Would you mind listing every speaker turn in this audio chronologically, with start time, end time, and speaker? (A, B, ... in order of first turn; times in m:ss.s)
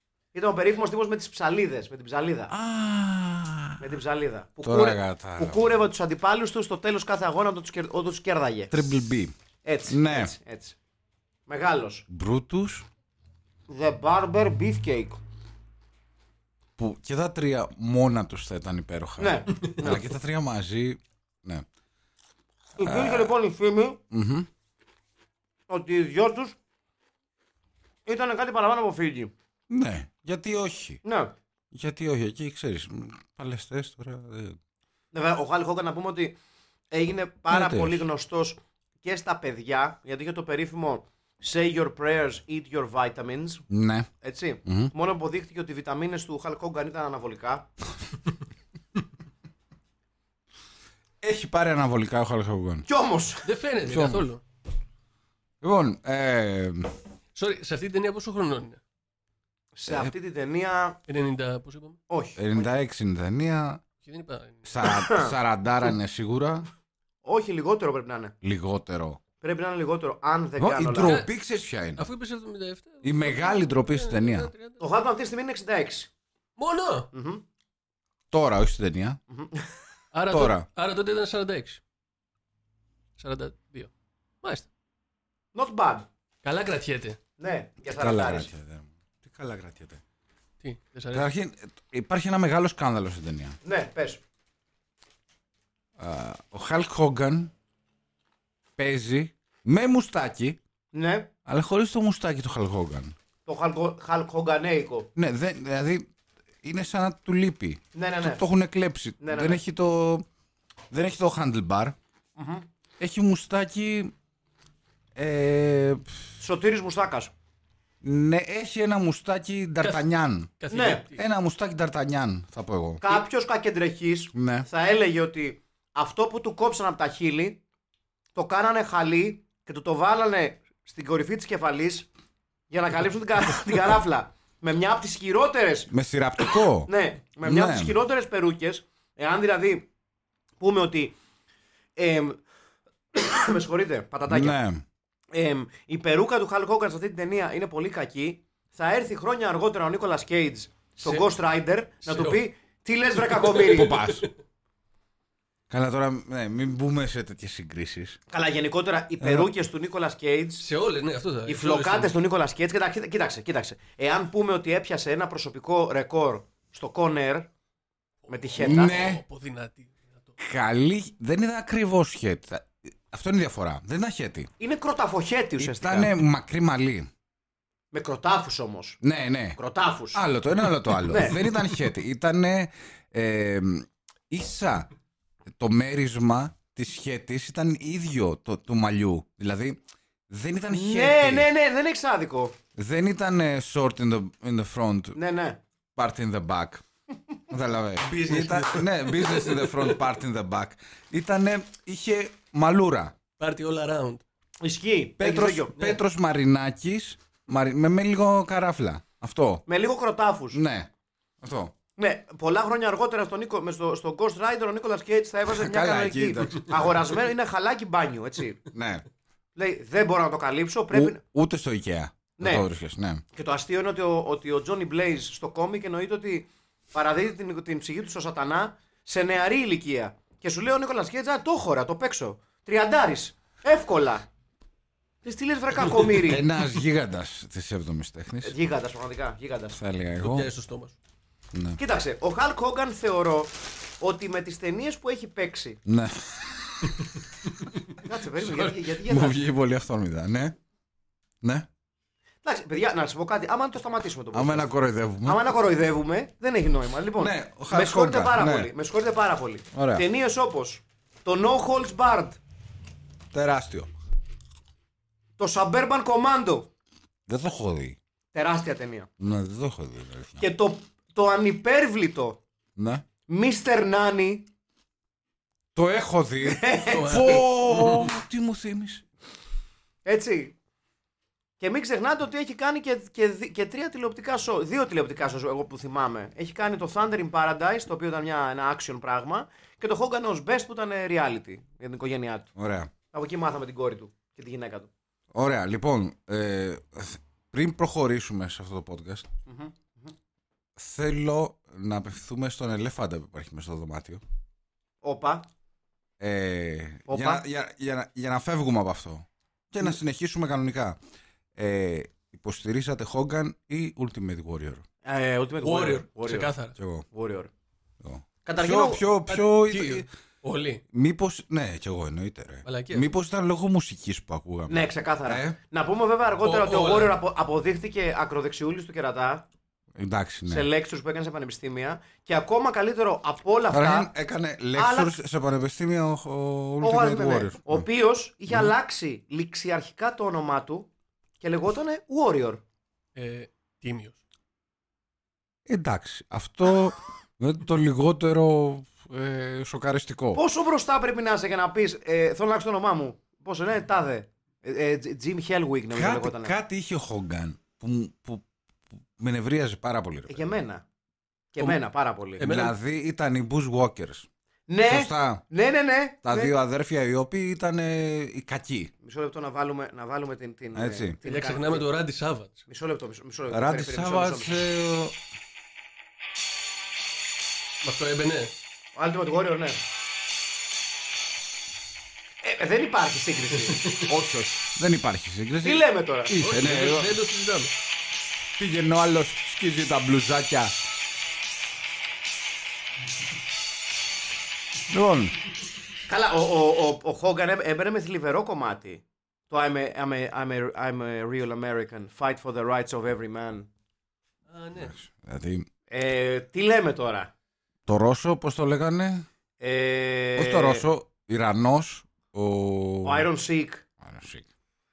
0:00.3-0:02.5 A
0:02.5-0:03.8 B
0:03.8-0:08.9 A
0:04.6-0:05.7 B
0:08.7-0:09.4 B
0:09.6-0:10.8 A
0:09.9-0:10.3 B
0:11.5-0:12.0 A
0:12.1-0:12.8 B
0:13.7-0:15.2 A
0:16.8-0:21.6 B
0:19.2-0:20.0 A
0:22.8-0:24.0 A
0:22.8-0:23.3 B
0:24.1-0:24.5 B
0:25.7-0:26.6 A
0:28.0-0:29.3 A
0:29.7-0:31.0 B
0:31.0-0:31.3 A
0:31.7-0:34.6 B
0:35.1-0:36.4 A
0:36.9-0:43.6 A
0:37.5-0:38.0 B
0:43.7-0:44.1 B
0:44.2-0:47.7 A
0:44.6-0:44.9 B
0:51.2-0:52.8 B
0:52.8-0:53.5 A
0:53.4-0:54.4 C
0:53.8-0:54.2 B
0:55.6-0:56.9 B
0:57.4-0:58.8 C
0:59.7-1:01.0 A
0:59.9-1:00.1 B
1:01.1-1:02.0 C
1:02.1-1:02.7 A
1:02.4-1:03.8 B
1:04.0-1:04.8 C
1:04.6-1:06.6 B
1:04.8-1:05.4 A
1:07.2-1:08.3 A
1:08.4-1:09.2 B
1:09.4-1:11.2 A
1:10.6-1:12.1 B
1:11.0-1:11.3 C
1:12.0-1:14.8 C
1:13.0-1:14.5 B
1:14.8-1:16.1 A
1:16.6-1:17.1 C
1:17.1-1:17.4 A
1:18.3-1:19.2 B
1:19.3-1:19.7 A
1:20.1-1:21.8 C
1:20.3-1:20.6 B
1:23.2-1:23.9 C
1:24.4-1:24.7 C
1:25.5-1:26.0 A
1:26.4-1:27.2 C
1:27.4-1:28.5 A
1:27.9-1:30.0 B
1:30.6-1:31.3 C
1:31.1-1:33.6 B
1:33.6-1:34.2 A
1:36.0-1:37.5 B
1:38.8-1:40.6 B
1:40.9-1:41.3 A
1:41.4-1:43.1 B
1:43.4-1:45.1 A
1:45.2-1:46.1 B
1:46.6-1:50.2 B
1:47.9-1:48.4 A
1:49.2-1:49.6 A
1:50.9-1:52.0 B
1:52.4-1:52.6 A
1:53.0-1:54.1 B
1:55.2-1:56.2 B
1:56.4-1:57.3 A
1:58.0-2:00.6 B
2:00.6-2:01.2 C
2:00.7-2:01.0 A
2:01.1-2:03.2 B
2:03.0-2:07.6 A
2:04.3-2:04.7 B
2:08.3-2:12.1 A
2:12.7-2:15.9 A
2:15.9-2:16.9 B
2:16.8-2:19.9 A
2:17.4-2:18.0 B
2:20.6-2:21.1 A
2:22.0-2:22.4 A
2:23.1-2:24.6 A
2:24.3-2:24.8 B
2:25.3-2:33.9 A
2:32.0-2:32.4 C
2:33.2-2:34.3 C
2:33.6-2:34.3 B
2:35.7-2:38.2 B
2:38.3-2:40.6 A
2:39.2-2:39.5 B
2:40.6-2:42.1 C
2:41.4-2:47.5 A
2:48.2-2:50.3 C
2:48.3-2:49.0 A
2:48.6-2:49.2 B
2:50.4-2:54.5 B
2:54.6-2:56.1 A
2:55.6-2:57.1 B
2:57.9-2:59.0 A
2:59.0-2:59.6 B
2:59.6-3:00.2 A
3:00.1-3:04.9 B
3:01.0-3:01.4 A
3:05.6-3:11.5 B
3:10.7-3:12.6 A
3:12.7-3:15.2 B
3:15.1-3:15.6 A
3:16.0-3:16.8 B
3:17.5-3:23.2 B
3:18.0-3:20.0 C
3:23.4-3:24.2 C
3:24.6-3:25.8 A
3:25.2-3:29.6 B
3:29.7-3:30.6 A
3:30.5-3:30.9 B
3:31.4-3:31.7 B
3:32.0-3:38.6 A
3:35.5-3:37.0 B
3:38.7-3:39.0 B
3:39.5-3:41.2 A
3:40.9-3:43.2 B
3:42.4-3:42.6 A
3:43.3-3:54.3 A
3:55.2-3:56.4 A
3:56.2-3:58.6 B
3:58.4-3:59.8 A
3:59.7-4:00.5 B
4:00.2-4:01.0 C
4:01.5-4:01.8 B
4:01.8-4:05.8 A
4:05.8-4:07.1 B
4:08.0-4:09.4 A
4:09.0-4:10.6 B
4:11.4-4:11.7 B
4:12.4-4:14.7 A
4:14.3-4:15.5 B
4:15.2-4:22.4 A
4:17.2-4:18.7 B
4:19.7-4:20.0 B
4:23.3-4:23.9 B
4:25.4-4:26.7 A
4:27.3-4:28.0 B
4:28.3-4:29.1 A
4:29.2-4:30.4 B
4:30.4-4:32.4 A
4:32.8-4:33.0 B
4:33.3-4:34.5 A
4:35.7-4:39.0 B
4:36.4-4:37.4 A
4:36.9-4:38.1 C
4:40.0-4:40.6 A
4:41.6-4:52.5 A
4:52.6-4:52.9 B
4:53.1-4:54.9 A
4:55.3-4:59.3 B
4:59.5-5:00.1 A
5:00.8-5:04.2 B
5:05.0-5:05.5 A
5:06.2-5:11.0 B
5:07.1-5:07.4 A
5:11.6-5:14.8 B
5:15.0-5:16.5 A
5:15.6-5:16.7 C
5:16.8-5:17.0 B
5:17.1-5:17.5 A
5:18.0-5:20.1 B
5:18.4-5:19.0 A
5:19.3-5:20.8 C
5:20.9-5:25.6 B
5:22.6-5:23.1 C
5:24.7-5:29.4 A
5:26.4-5:27.2 C
5:30.0-5:30.7 B
5:30.5-5:34.1 A
5:33.7-5:37.8 B
5:34.7-5:35.1 A
5:36.8-5:40.9 A
5:41.4-5:42.6 A
5:43.1-5:44.2 C
5:45.6-5:50.4 B
5:50.3-5:56.5 A
5:55.9-5:58.4 B
5:59.2-6:00.5 B
6:00.3-6:00.8 A
6:01.5-6:02.4 A
6:02.4-6:02.7 C
6:02.4-6:04.3 B
6:04.7-6:06.5 A
6:04.9-6:05.4 B
6:06.2-6:08.9 B
6:09.0-6:11.8 A
6:10.7-6:11.2 B
6:11.2-6:12.6 C
6:12.7-6:14.6 A
6:13.5-6:15.2 B
6:17.8-6:18.5 C
6:18.9-6:19.8 A
6:22.4-6:24.0 A
6:24.1-6:27.2 B
6:25.6-6:26.3 A
6:26.4-6:27.7 C
6:28.6-6:30.7 B
6:34.9-6:35.3 B
6:36.1-6:43.7 A
6:44.5-6:44.9 C
6:44.8-6:45.7 B
6:45.9-6:47.3 A
6:47.9-6:49.2 B
6:49.6-6:50.8 A
6:50.4-6:53.3 B
6:53.0-6:53.8 A
6:54.0-6:54.4 B